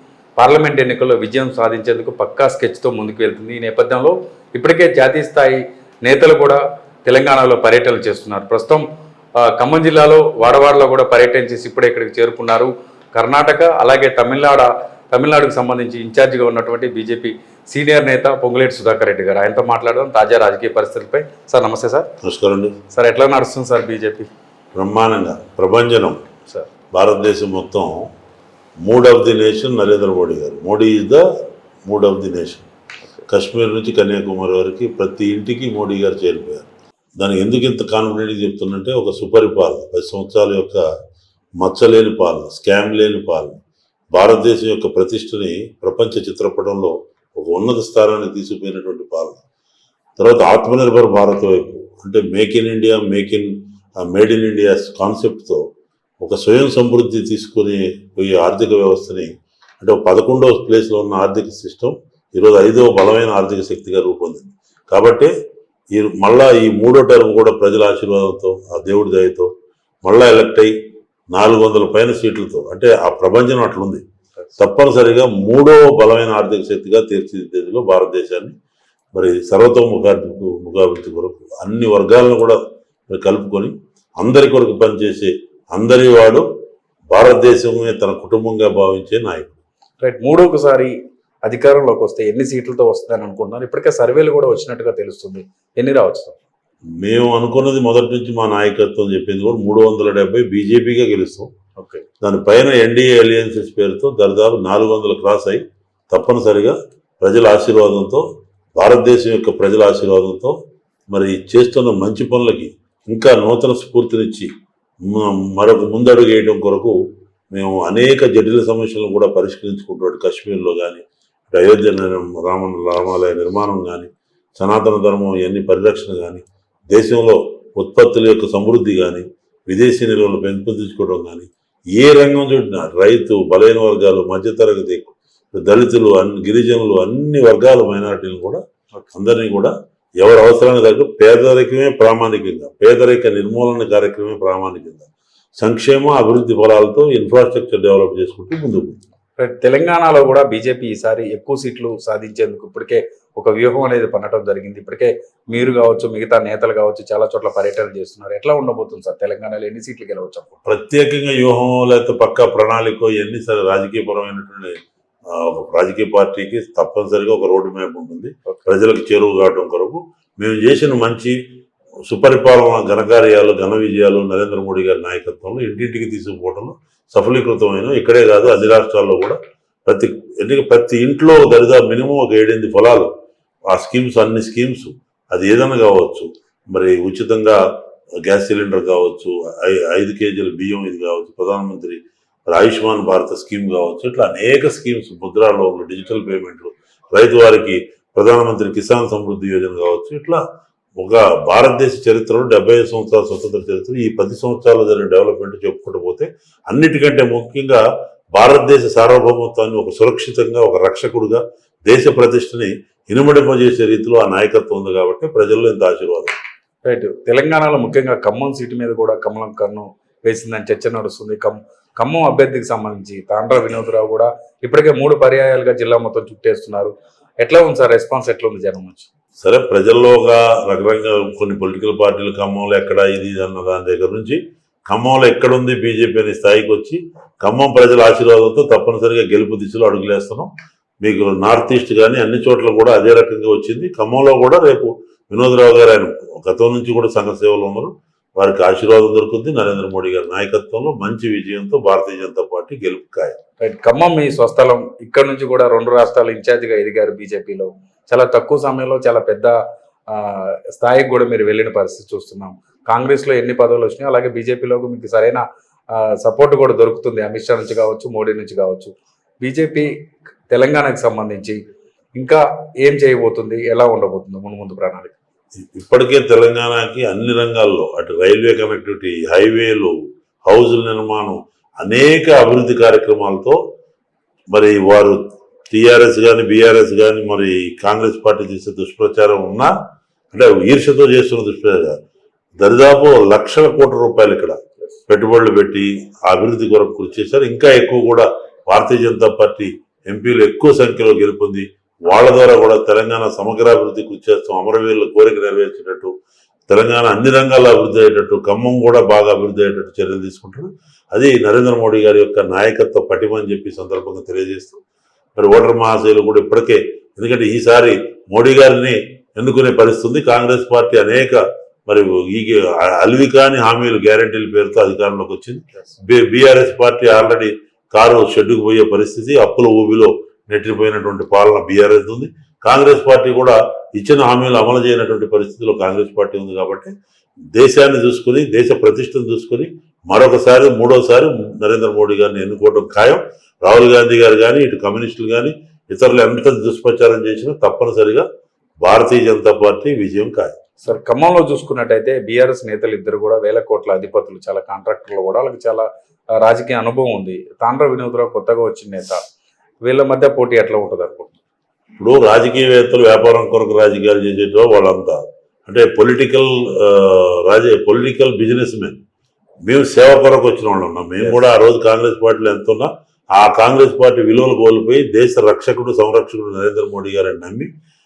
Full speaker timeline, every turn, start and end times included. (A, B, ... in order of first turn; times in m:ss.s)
0:00.4-0:08.8 A
0:09.4-0:22.1 A
0:22.2-0:22.8 B
0:22.9-0:24.3 A
0:24.7-0:26.2 B
0:26.9-0:28.1 B
0:28.8-0:31.2 B
0:31.8-0:32.7 B
0:33.3-0:36.7 B
0:37.2-0:40.8 B
0:41.6-0:43.6 B
0:44.1-0:49.4 B
0:50.2-0:55.6 B
0:56.2-1:05.3 B
1:05.9-1:09.5 B
1:10.0-1:10.7 B
1:11.3-1:14.0 B
1:14.6-1:18.5 B
1:19.1-1:26.4 B
1:27.1-1:29.5 B
1:30.0-1:30.9 A
1:31.4-1:36.4 A
1:37.0-1:41.5 B
1:41.8-1:42.0 A
1:42.2-1:48.2 B
1:48.8-1:50.6 B
1:51.1-1:54.5 B
1:55.0-1:57.0 B
1:57.5-2:18.6 B
2:19.1-2:25.1 B
2:25.6-2:29.0 B
2:29.4-2:40.6 A
2:40.6-2:44.8 B
2:45.3-2:51.4 B
2:52.1-3:03.1 B
3:03.7-3:07.6 B
3:08.2-3:20.4 B
3:21.0-3:27.8 B
3:28.3-3:36.3 B
3:36.8-3:49.1 A
3:49.4-4:00.5 B
4:01.0-4:13.4 B
4:13.6-4:19.6 A
4:20.1-4:29.9 A
4:30.5-4:31.6 A
4:32.2-4:35.2 A
4:35.6-4:43.6 B
4:44.5-4:49.7 B
4:50.3-4:52.0 B
4:52.6-5:06.1 B
5:06.7-5:14.8 B
5:15.4-5:36.9 B
5:37.5-5:48.2 B
5:48.8-5:50.6 B
5:50.8-5:59.2 A
5:59.8-6:01.4 A
6:02.0-6:09.0 B
6:09.6-6:17.7 B
6:11.2-6:11.4 A